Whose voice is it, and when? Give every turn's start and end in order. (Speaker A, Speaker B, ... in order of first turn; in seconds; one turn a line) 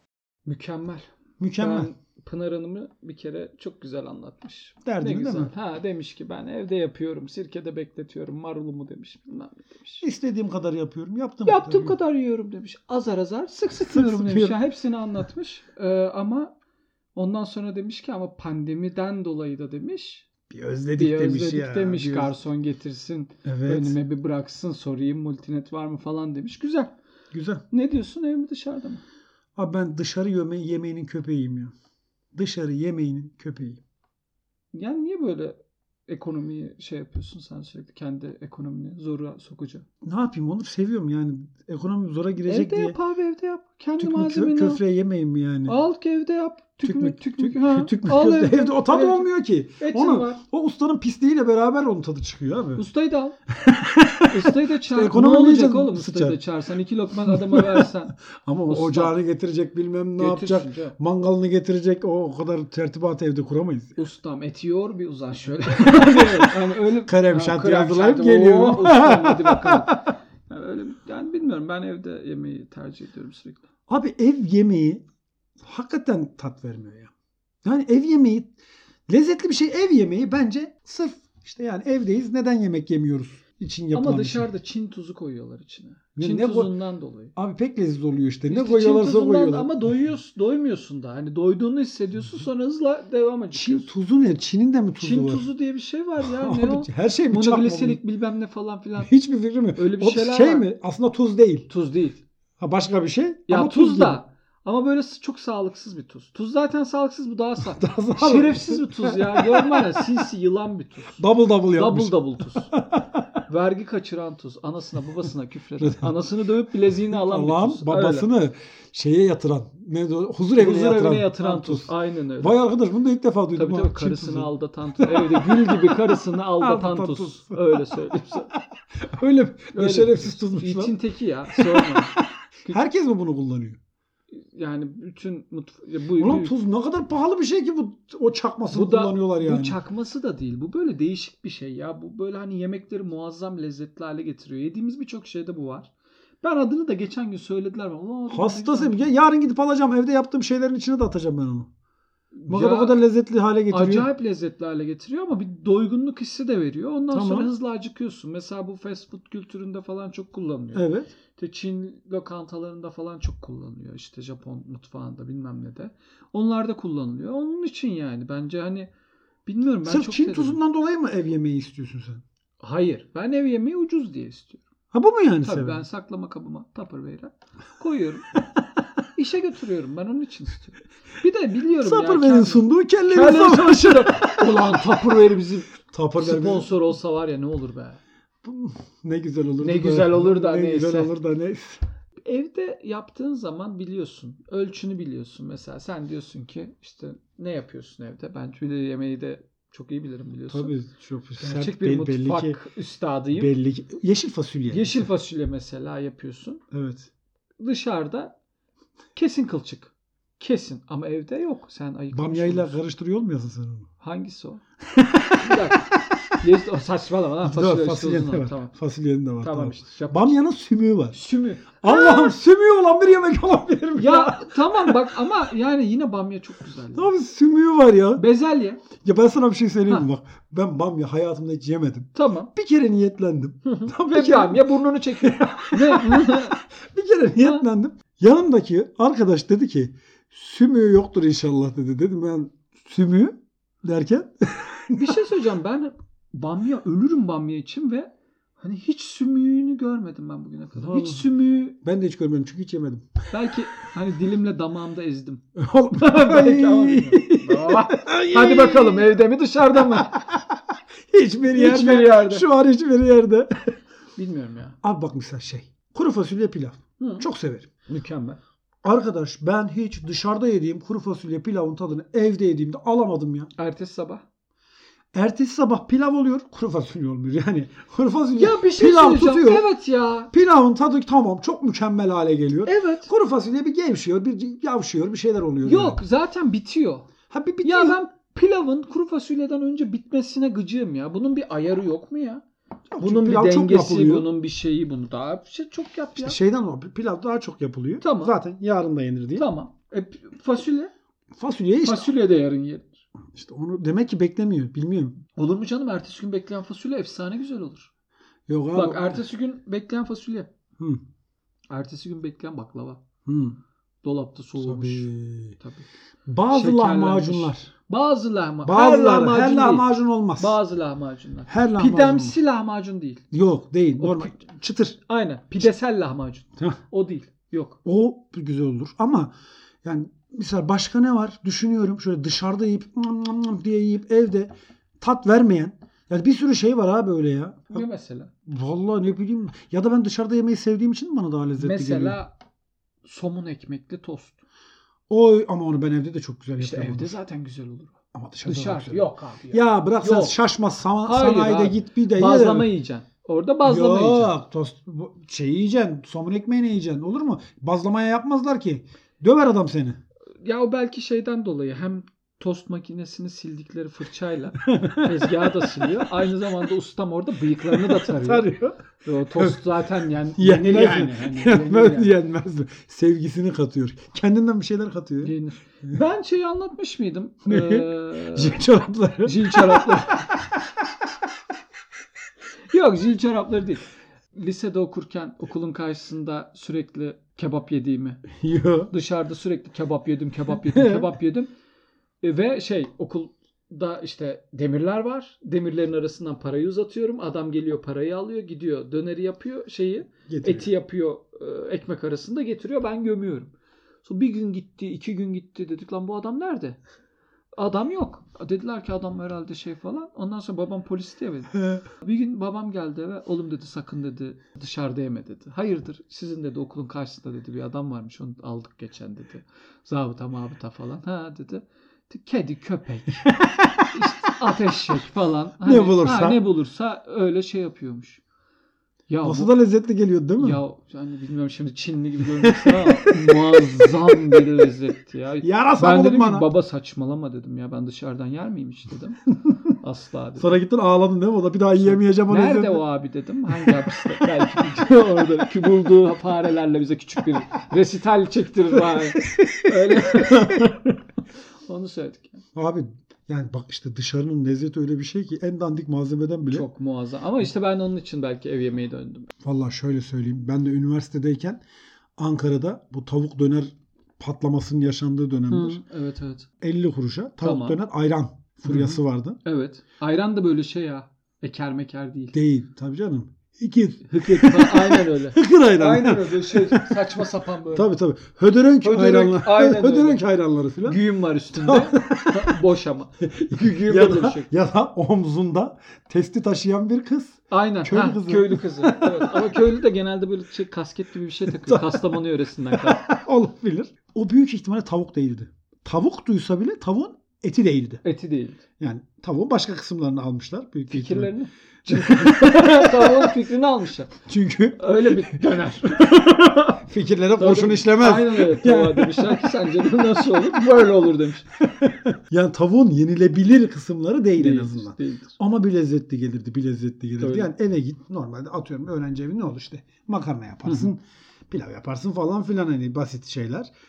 Speaker A: 0.5-10.0
Speaker B: 1.4-1.9
Speaker B: 4.8-5.5
Speaker B: 10.0-12.0
Speaker A: 11.4-16.5
Speaker B: 13.9-14.6
Speaker A: 17.1-20.2
Speaker B: 20.5-22.3
Speaker A: 21.0-26.9
Speaker B: 23.4-24.0
Speaker B: 27.3-27.6
Speaker A: 27.7-29.0
Speaker B: 29.6-31.7
Speaker B: 32.3-33.8
Speaker A: 34.7-39.8
Speaker B: 40.0-43.0
Speaker A: 42.4-44.8
Speaker B: 44.0-45.8
Speaker A: 45.7-49.3
Speaker B: 46.8-52.9
Speaker A: 49.8-50.4
Speaker A: 52.8-53.4
Speaker B: 53.5-56.4
Speaker A: 54.2-59.1
Speaker B: 57.3-64.0
Speaker A: 60.2-61.0
Speaker A: 64.0-73.6
Speaker B: 65.8-70.0
Speaker B: 73.9-75.0
Speaker B: 75.6-77.1
Speaker B: 77.6-78.5
Speaker B: 79.1-84.5
Speaker A: 83.9-87.3
Speaker B: 86.2-86.7
Speaker B: 87.3-89.8
Speaker A: 88.5-93.9
Speaker B: 93.5-95.5
Speaker A: 95.0-99.1
Speaker B: 96.2-98.0
Speaker B: 99.0-101.7
Speaker A: 99.8-100.7
Speaker A: 101.7-102.2
Speaker B: 102.6-104.2
Speaker A: 103.5-112.7
Speaker B: 107.6-110.0
Speaker B: 111.2-113.2
Speaker A: 113.5-118.3
Speaker B: 115.8-116.1
Speaker B: 117.1-131.0
Speaker A: 120.6-122.5
Speaker A: 123.5-128.5
Speaker A: 129.7-132.8
Speaker B: 131.5-133.8
Speaker A: 134.3-136.5
Speaker B: 136.2-139.8
Speaker A: 138.7-149.0
Speaker B: 148.3-151.7
Speaker A: 152.3-153.0
Speaker B: 152.5-154.1
Speaker A: 153.7-168.9
Speaker B: 157.1-157.5
Speaker B: 160.7-161.1
Speaker A: 169.5-170.6
Speaker B: 169.8-172.2
Speaker A: 172.6-174.6
Speaker B: 174.9-175.8
Speaker A: 175.4-178.4
Speaker A: 179.2-188.0
Speaker B: 181.8-185.1
Speaker B: 185.9-186.7
Speaker B: 188.4-191.8
Speaker A: 189.6-191.1
Speaker A: 192.2-200.7
Speaker B: 200.5-202.6
Speaker A: 201.4-203.5
Speaker B: 203.3-205.1
Speaker A: 204.7-206.6
Speaker B: 206.7-207.1
Speaker A: 207.6-208.3
Speaker A: 209.2-212.7
Speaker B: 212.1-213.9
Speaker A: 214.0-214.6
Speaker B: 214.9-216.3
Speaker A: 215.4-218.7
Speaker B: 217.4-221.2
Speaker A: 219.4-220.3
Speaker A: 221.1-222.3
Speaker B: 221.8-225.0
Speaker A: 224.0-227.1
Speaker B: 226.9-228.2
Speaker A: 228.2-228.8
Speaker B: 228.9-245.2
Speaker A: 232.2-232.5
Speaker A: 233.7-236.6
Speaker A: 237.4-237.7
Speaker A: 244.9-251.8
Speaker B: 250.7-253.1
Speaker A: 253.3-255.4
Speaker B: 255.6-259.2
Speaker A: 255.9-260.2
Speaker B: 259.8-263.7
Speaker A: 261.5-262.4
Speaker A: 264.1-264.8
Speaker B: 264.8-267.7
Speaker A: 267.0-267.2
Speaker A: 267.9-268.4
Speaker B: 268.8-273.5
Speaker A: 273.6-274.2
Speaker B: 275.1-279.7
Speaker A: 278.4-280.3
Speaker B: 280.3-286.0
Speaker A: 282.6-283.1
Speaker A: 285.6-287.1
Speaker B: 287.3-288.0
Speaker A: 287.6-292.4
Speaker B: 292.9-294.3
Speaker A: 293.0-296.4
Speaker B: 296.1-299.5
Speaker A: 298.0-298.4
Speaker A: 299.4-300.9
Speaker B: 301.4-302.2
Speaker A: 301.8-303.0
Speaker B: 303.3-305.2
Speaker A: 305.4-307.9
Speaker B: 308.5-309.2
Speaker A: 308.7-310.5
Speaker A: 311.7-313.0
Speaker B: 313.2-313.6
Speaker A: 314.0-315.1
Speaker B: 314.6-315.6
Speaker A: 315.6-315.9
Speaker B: 316.3-317.7
Speaker A: 316.5-319.9
Speaker B: 318.6-320.6
Speaker A: 320.4-323.2
Speaker B: 321.5-322.4
Speaker B: 323.3-325.0
Speaker A: 324.0-324.4
Speaker A: 325.0-327.8
Speaker B: 327.8-329.3
Speaker B: 329.8-337.9
Speaker A: 337.7-338.3
Speaker B: 338.5-342.2
Speaker A: 341.6-342.3
Speaker A: 343.0-344.4
Speaker B: 345.1-347.2
Speaker A: 346.6-347.9
Speaker B: 348.1-352.7
Speaker A: 348.4-350.4
Speaker A: 351.0-354.3
Speaker B: 353.6-360.0
Speaker A: 360.4-368.5
Speaker B: 364.6-366.3
Speaker B: 367.6-368.8
Speaker A: 369.0-372.1
Speaker B: 369.3-369.7
Speaker B: 370.3-375.4
Speaker A: 375.2-378.6
Speaker B: 377.5-380.6
Speaker A: 379.2-380.3
Speaker A: 382.7-388.2
Speaker B: 388.4-388.9
Speaker A: 388.9-391.5
Speaker B: 390.5-391.1
Speaker A: 392.2-403.5
Speaker B: 400.3-400.7
Speaker A: 404.0-406.8
Speaker A: 407.6-423.3
Speaker B: 423.3-423.9
Speaker A: 423.9-428.2
Speaker B: 425.6-426.4
Speaker A: 429.1-429.5
Speaker B: 429.2-430.6
Speaker A: 430.4-439.2
Speaker B: 432.4-434.6
Speaker B: 435.4-436.5
Speaker A: 439.8-440.5
Speaker B: 440.4-442.8
Speaker A: 441.8-450.9
Speaker B: 443.5-444.7
Speaker B: 449.2-450.8
Speaker A: 451.6-452.4
Speaker B: 452.5-456.7
Speaker A: 456.5-459.3
Speaker B: 459.4-461.6
Speaker B: 462.2-465.8
Speaker A: 465.5-466.5
Speaker B: 466.6-469.4
Speaker A: 467.4-467.8
Speaker A: 468.7-472.3
Speaker B: 472.3-481.0
Speaker A: 474.1-477.9
Speaker A: 478.8-480.2
Speaker A: 480.8-484.5
Speaker B: 481.5-482.6
Speaker B: 483.2-489.6
Speaker A: 487.5-493.0
Speaker B: 491.5-498.0
Speaker A: 498.0-498.6
Speaker B: 498.8-501.3
Speaker A: 500.9-504.1
Speaker B: 501.9-503.3
Speaker B: 504.2-509.5
Speaker A: 504.8-506.8
Speaker A: 507.4-511.5
Speaker B: 511.6-523.7
Speaker A: 514.4-515.4
Speaker A: 517.2-517.5